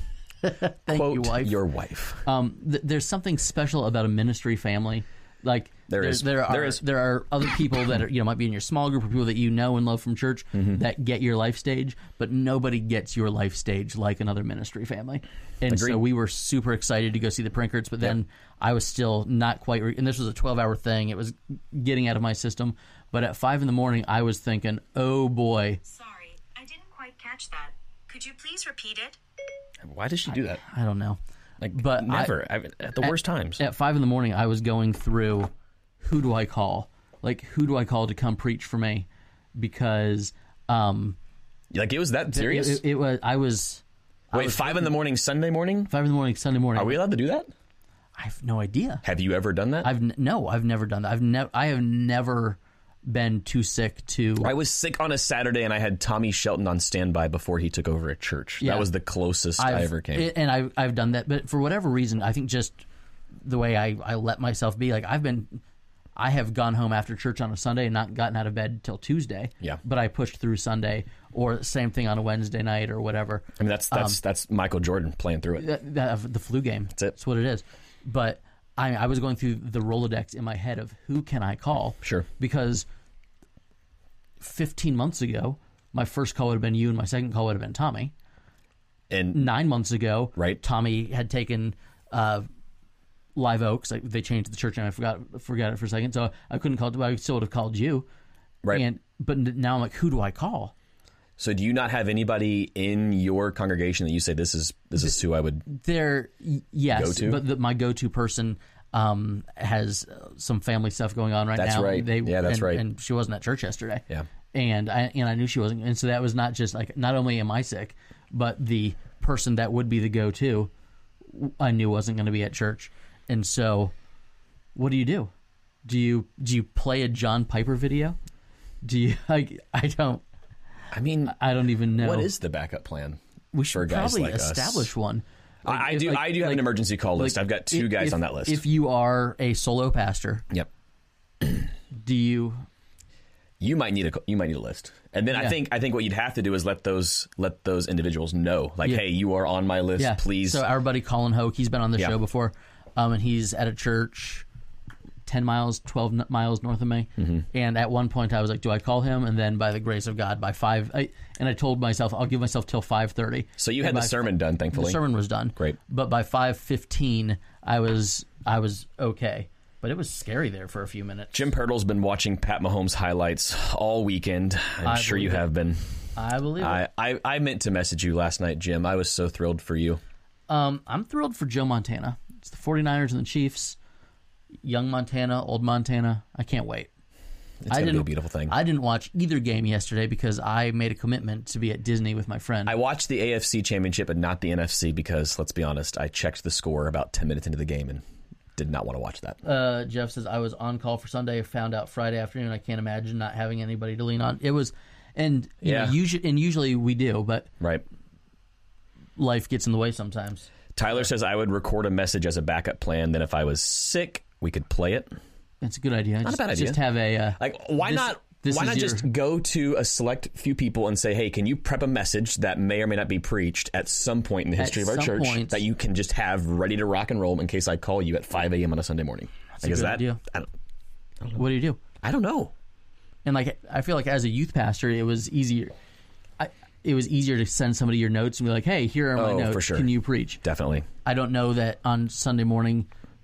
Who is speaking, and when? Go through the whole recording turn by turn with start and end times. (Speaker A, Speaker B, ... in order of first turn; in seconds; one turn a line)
Speaker A: 0.4-1.6
Speaker B: 0.9-2.2
Speaker A: 2.2-25.8
Speaker B: 5.9-6.8
Speaker B: 10.5-10.8
Speaker B: 15.7-16.0
Speaker C: 25.9-29.2
Speaker B: 29.8-30.6
Speaker A: 30.6-31.2
Speaker B: 31.6-33.6
Speaker A: 31.7-32.3
Speaker A: 33.0-35.5
Speaker A: 36.0-41.2
Speaker B: 41.7-42.8
Speaker A: 42.3-45.0
Speaker B: 44.3-45.9
Speaker A: 45.9-47.0
Speaker B: 46.8-47.5
Speaker A: 48.2-49.0
Speaker B: 49.0-49.9
Speaker A: 49.8-54.5
Speaker B: 54.4-60.3
Speaker A: 58.6-58.9
Speaker A: 59.6-62.9
Speaker A: 63.4-65.6
Speaker A: 66.2-74.2
Speaker B: 73.6-75.7
Speaker A: 75.6-82.9
Speaker B: 82.0-82.3
Speaker A: 84.4-88.1
Speaker B: 89.1-89.5
Speaker A: 89.3-92.5
Speaker B: 90.4-90.6
Speaker A: 93.4-98.1
Speaker A: 98.7-100.7
Speaker B: 101.4-105.6
Speaker A: 105.7-120.7
Speaker B: 106.9-107.4
Speaker B: 111.6-112.8
Speaker A: 121.3-123.9
Speaker A: 124.8-125.3
Speaker A: 125.8-128.2
Speaker A: 128.8-130.2
Speaker B: 130.9-131.4
Speaker A: 131.3-132.3
Speaker B: 131.9-133.2
Speaker A: 133.5-140.5
Speaker B: 133.7-134.9
Speaker B: 135.7-138.6
Speaker A: 141.9-142.7
Speaker B: 143.6-150.6
Speaker A: 150.0-154.4
Speaker A: 155.3-171.4
Speaker B: 157.2-157.4
Speaker B: 163.6-165.0
Speaker B: 171.3-176.0
Speaker A: 174.8-175.5
Speaker A: 176.2-176.8
Speaker B: 176.6-180.0
Speaker A: 180.5-183.8
Speaker A: 184.6-186.9
Speaker B: 187.6-188.6
Speaker A: 187.7-192.7
Speaker B: 192.7-198.0
Speaker B: 198.6-199.4
Speaker A: 199.4-207.5
Speaker B: 205.6-206.0
Speaker B: 207.6-207.8
Speaker A: 209.2-210.5
Speaker B: 210.8-215.1
Speaker A: 215.6-219.1
Speaker B: 216.2-216.8
Speaker B: 217.4-230.5
Speaker A: 224.6-225.6
Speaker A: 229.6-230.2
Speaker A: 231.3-231.8
Speaker B: 232.0-232.5
Speaker A: 233.2-235.7
Speaker A: 236.4-240.4
Speaker B: 239.2-239.9
Speaker B: 240.4-240.9
Speaker A: 241.1-242.9